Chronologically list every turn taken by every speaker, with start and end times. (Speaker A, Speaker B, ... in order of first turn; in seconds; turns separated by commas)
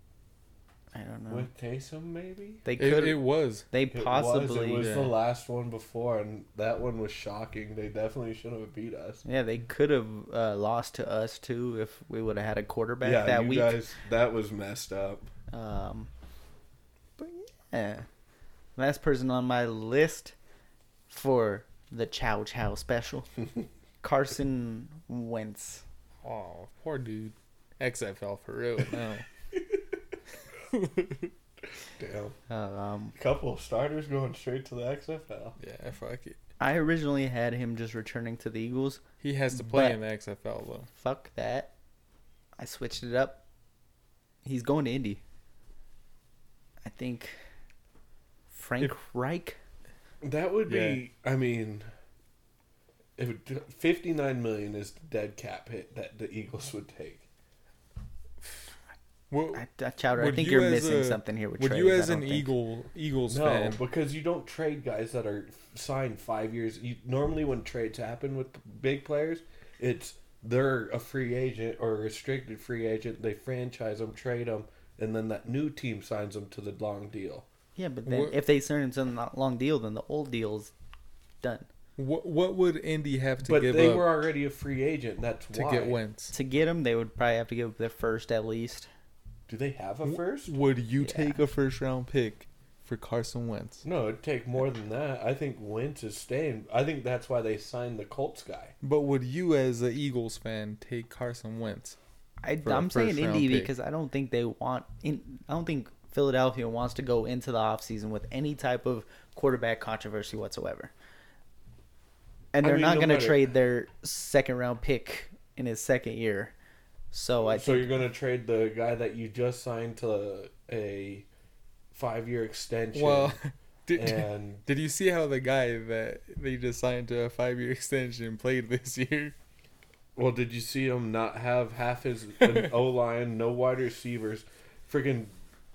Speaker A: 0.9-1.5, Speaker B: 1.3-2.6, Speaker A: 2.6-4.9, Speaker C: 2.8-3.7, Speaker B: 3.9-9.2, Speaker C: 4.8-5.1, Speaker A: 9.2-13.8, Speaker B: 13.0-15.3, Speaker A: 15.5-16.1, Speaker A: 17.2-18.1, Speaker A: 18.8-20.3, Speaker A: 21.1-23.3, Speaker A: 24.0-25.8, Speaker C: 26.2-29.2, Speaker C: 30.7-31.3, Speaker B: 32.0-32.4, Speaker A: 32.5-33.1, Speaker B: 33.1-35.6, Speaker C: 35.6-36.4, Speaker A: 36.6-39.0, Speaker C: 39.2-40.9, Speaker A: 39.5-40.0, Speaker A: 40.9-41.7, Speaker A: 42.6-43.4, Speaker A: 44.4-45.2, Speaker A: 46.8-47.4, Speaker A: 48.5-49.6, Speaker B: 50.2-51.9, Speaker C: 50.7-51.0, Speaker B: 53.2-57.2, Speaker C: 59.3-63.8, Speaker A: 59.5-62.5, Speaker B: 63.3-77.5, Speaker A: 77.8-80.7, Speaker C: 78.0-78.4, Speaker A: 81.4-81.7, Speaker C: 82.0-84.2, Speaker B: 83.4-86.0, Speaker C: 85.5-86.3, Speaker A: 86.3-88.9, Speaker B: 89.5-90.5, Speaker C: 90.0-93.8, Speaker A: 91.0-91.4, Speaker B: 93.8-98.7, Speaker C: 98.8-102.0, Speaker A: 102.4-110.9, Speaker C: 102.6-103.7, Speaker A: 112.5-116.5, Speaker B: 112.6-113.5, Speaker A: 117.1-117.9, Speaker B: 117.5-121.3, Speaker B: 121.9-123.4, Speaker C: 122.9-129.3, Speaker B: 123.9-124.6, Speaker B: 130.2-135.3, Speaker C: 132.4-132.7